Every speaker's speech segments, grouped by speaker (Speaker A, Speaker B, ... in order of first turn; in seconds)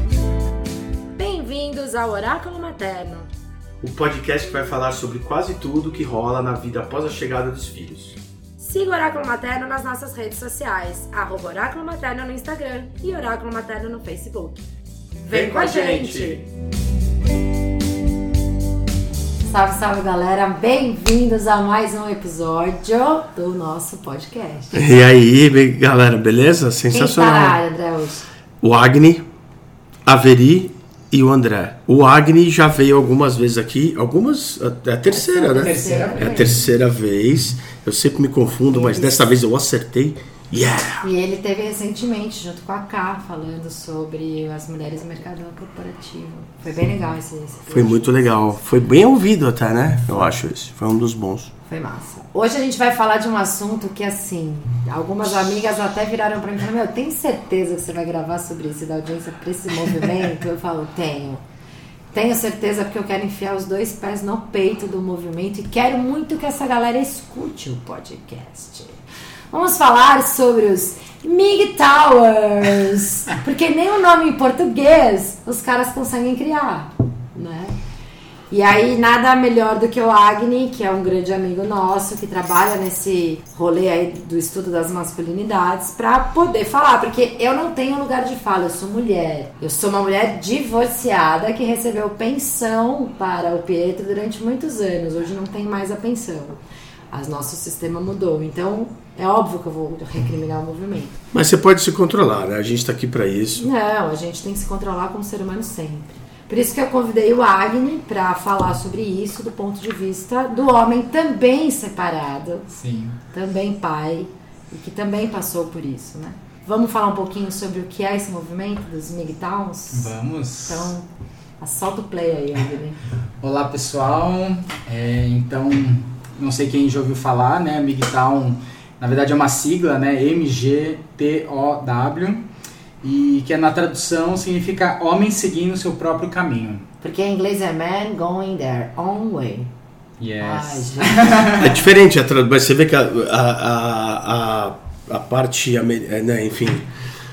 Speaker A: 1.2-3.3, 8.6-14.6, 15.2-16.4, 19.5-24.9, 26.9-28.2, 35.1-36.5, 38.7-39.2, 41.0-48.5, 51.7-61.4, 62.1-69.0, 69.5-77.7, 78.5-96.6, 97.1-101.2, 103.6-112.7, 113.3-120.1, 120.7-121.0, 121.6-123.0, 137.0-139.7, 140.4-141.5
Speaker B: 3.8-8.2, 15.3-16.4, 24.7-27.6, 28.6-29.2, 30.0-41.0, 47.7-51.5, 101.3-103.7, 141.6-146.8
Speaker C: 35.5-36.6, 112.8-113.2, 119.9-120.9, 123.4-132.4, 133.0-136.8, 140.2-141.8